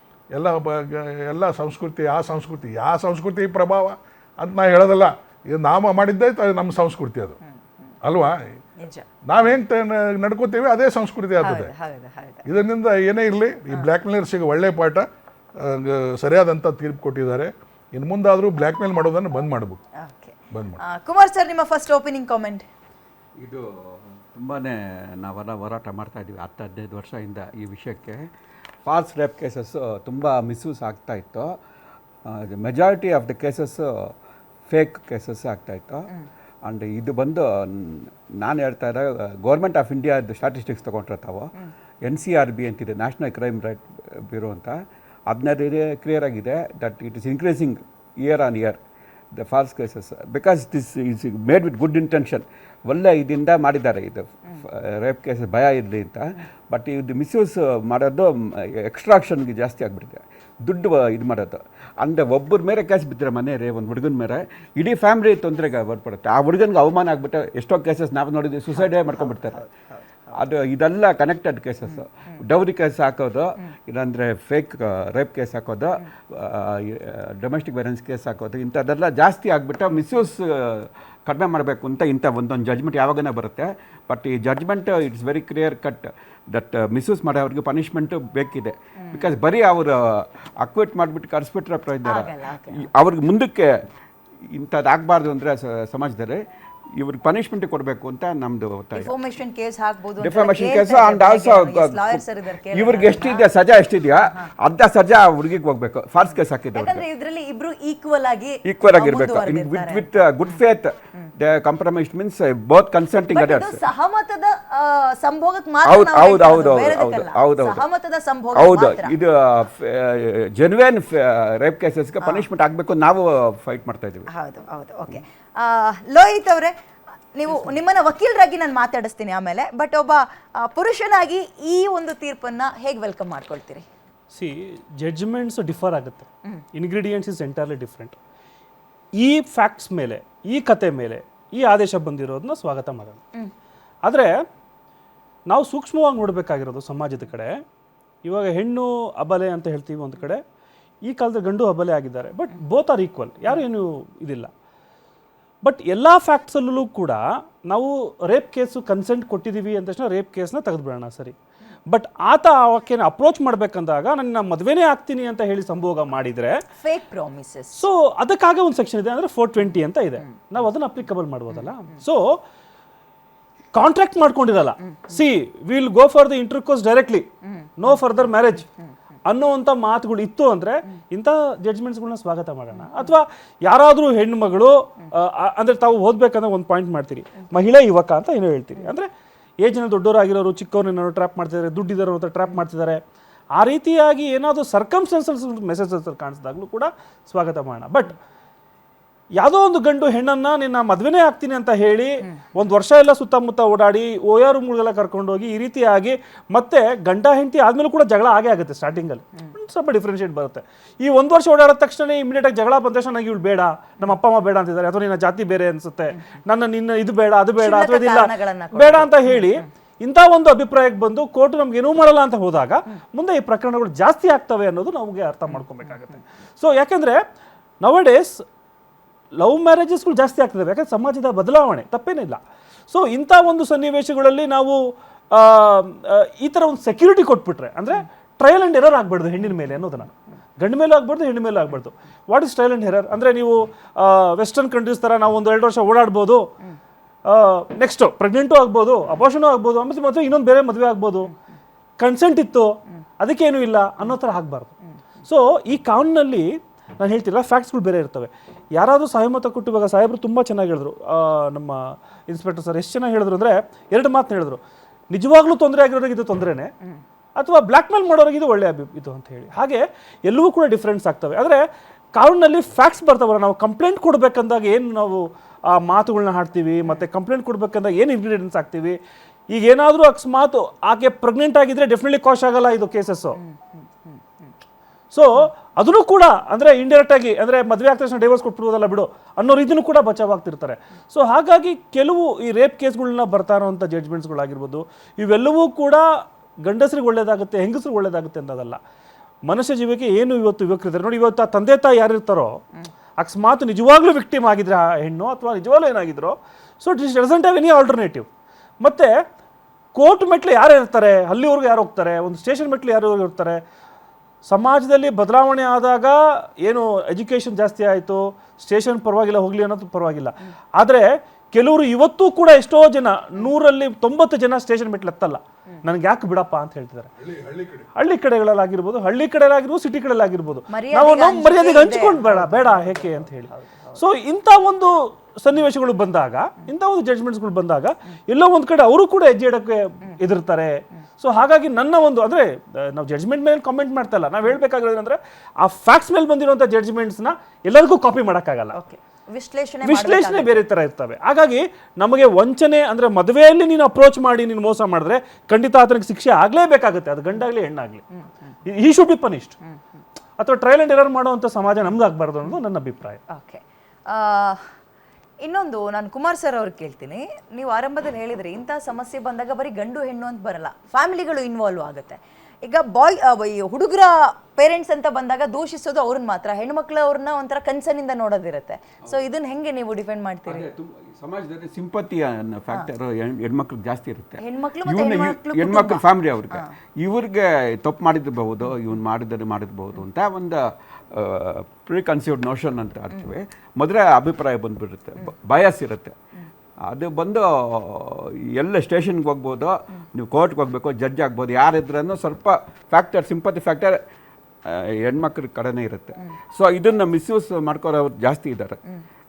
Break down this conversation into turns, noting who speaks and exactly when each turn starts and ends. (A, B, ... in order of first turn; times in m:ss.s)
0:00.3-0:07.4 A
0:08.0-0:08.4 A
0:08.8-0:09.0 B
0:09.2-0:11.7 A
0:11.4-0:12.4 B
0:12.4-0:15.1 A
0:15.6-0:19.8 A
0:20.0-0:22.7 B
0:20.5-0:20.8 A
0:23.4-0:28.3 C
0:28.8-0:31.5 C
0:32.2-0:34.1 C
0:34.7-0:36.1 C
0:36.6-0:41.5 C
0:42.0-0:48.8 C
0:49.3-1:09.6 C
1:08.8-1:10.4 B
1:10.3-1:33.8 C
1:29.0-1:29.3 B
1:32.0-1:32.9 B
1:34.4-1:36.4 C
1:36.9-1:39.1 C
1:39.0-1:43.4 B
1:40.2-1:47.0 C
1:44.2-1:44.5 B
1:46.4-1:50.0 B
1:48.6-1:53.8 C
1:53.3-1:59.1 B
1:55.8-1:57.8 C
1:58.5-2:04.3 C
2:02.2-2:02.4 B
2:04.3-2:06.7 B
2:07.3-2:13.8 B
2:14.3-2:18.2 D
2:19.2-2:23.2 D
2:24.0-2:24.3 D
2:25.5-2:27.6 D
2:28.2-2:30.4 D
2:31.0-2:34.5 D
2:35.6-2:41.3 D
2:41.9-2:46.6 D
2:46.8-2:47.8 B
2:47.8-2:52.2 D
2:53.7-2:58.7 D
2:59.3-3:09.1 D
3:09.6-3:13.0 D
3:13.6-3:18.2 D
3:19.4-3:47.2 D
3:37.6-3:39.5 B
3:47.8-3:48.4 D
3:49.4-3:54.8 D
3:55.3-4:06.5 D
4:07.2-4:11.3 D
4:12.0-4:24.6 D
4:25.1-4:26.7 D
4:27.4-4:31.6 D
4:32.1-4:39.0 D
4:39.5-4:43.4 D
4:43.4-4:44.2 B
4:45.1-4:56.0 D
4:56.6-4:58.8 D
4:59.4-5:02.6 D
5:03.2-5:08.3 D
5:08.8-5:09.1 D
5:09.9-5:13.6 D
5:14.4-5:27.1 D
5:27.2-5:27.9 A
5:28.0-5:48.8 D
5:30.7-5:34.0 B
5:48.7-5:50.6 B
5:49.8-5:58.0 D
5:58.6-5:59.6 D
6:00.4-6:03.2 D
6:03.3-6:04.6 B
6:05.4-6:20.7 B
6:20.5-6:36.2 C
6:24.4-6:26.7 B
6:36.8-6:44.0 C
6:44.6-6:48.8 C